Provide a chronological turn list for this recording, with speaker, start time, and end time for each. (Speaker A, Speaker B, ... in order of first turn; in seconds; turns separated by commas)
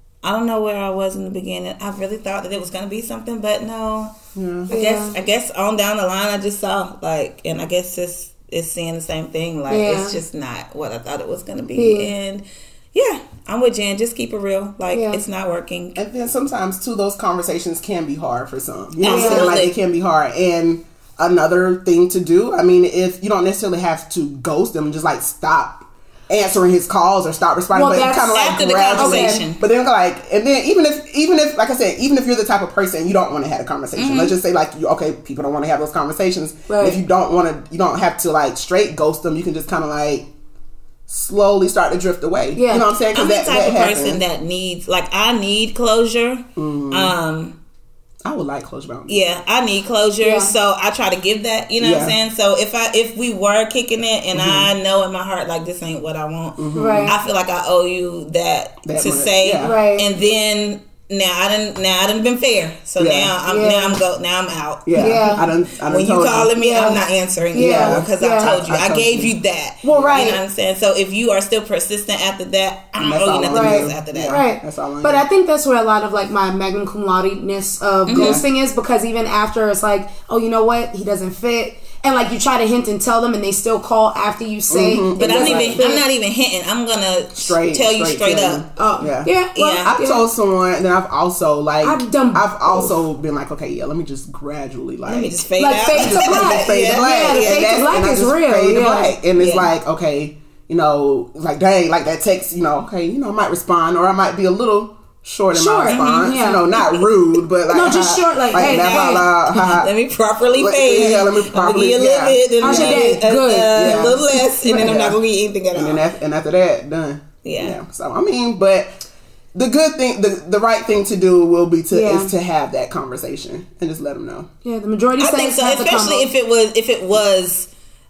Speaker A: 0.2-4.1, Speaker B: 4.3-4.7, Speaker A: 4.7-16.0, Speaker C: 4.7-5.1, Speaker C: 9.7-10.2, Speaker C: 11.7-12.1, Speaker C: 14.9-15.2, Speaker B: 15.9-40.3, Speaker A: 19.0-19.7, Speaker C: 19.0-19.5, Speaker C: 27.7-28.4, Speaker A: 28.2-29.6, Speaker C: 28.9-29.4, Speaker A: 34.0-34.3, Speaker C: 36.7-37.0, Speaker B: 41.1-44.2, Speaker C: 42.5-42.9, Speaker A: 43.1-47.6, Speaker B: 46.5-47.1, Speaker B: 48.2-49.2, Speaker A: 49.1-74.4, Speaker C: 50.2-50.5, Speaker B: 51.8-52.2, Speaker B: 54.3-54.7, Speaker B: 56.6-57.2, Speaker C: 56.7-57.1, Speaker B: 58.8-59.8, Speaker C: 59.6-60.1, Speaker B: 63.0-63.3, Speaker C: 63.5-64.0, Speaker B: 64.8-66.6, Speaker C: 64.9-65.5, Speaker C: 66.6-67.0, Speaker C: 67.5-68.5, Speaker B: 67.5-69.3, Speaker C: 69.8-70.4, Speaker B: 69.9-70.4, Speaker B: 73.0-75.2, Speaker C: 73.5-86.1, Speaker A: 78.1-78.4, Speaker B: 78.1-78.4, Speaker B: 84.7-85.8, Speaker A: 85.2-88.7, Speaker B: 87.3-89.3, Speaker C: 88.8-90.3, Speaker A: 89.5-89.9, Speaker B: 89.8-109.9, Speaker C: 91.8-93.0, Speaker A: 95.0-97.9, Speaker C: 95.6-99.2, Speaker A: 99.4-99.7, Speaker C: 105.5-106.6, Speaker A: 105.8-107.1, Speaker C: 107.7-109.2, Speaker A: 108.5-116.0, Speaker B: 110.5-113.2, Speaker C: 112.6-115.0, Speaker B: 113.7-115.2, Speaker B: 115.7-119.0, Speaker A: 117.4-117.8, Speaker B: 119.5-124.5, Speaker C: 121.9-122.3, Speaker C: 124.6-126.3, Speaker A: 125.2-127.7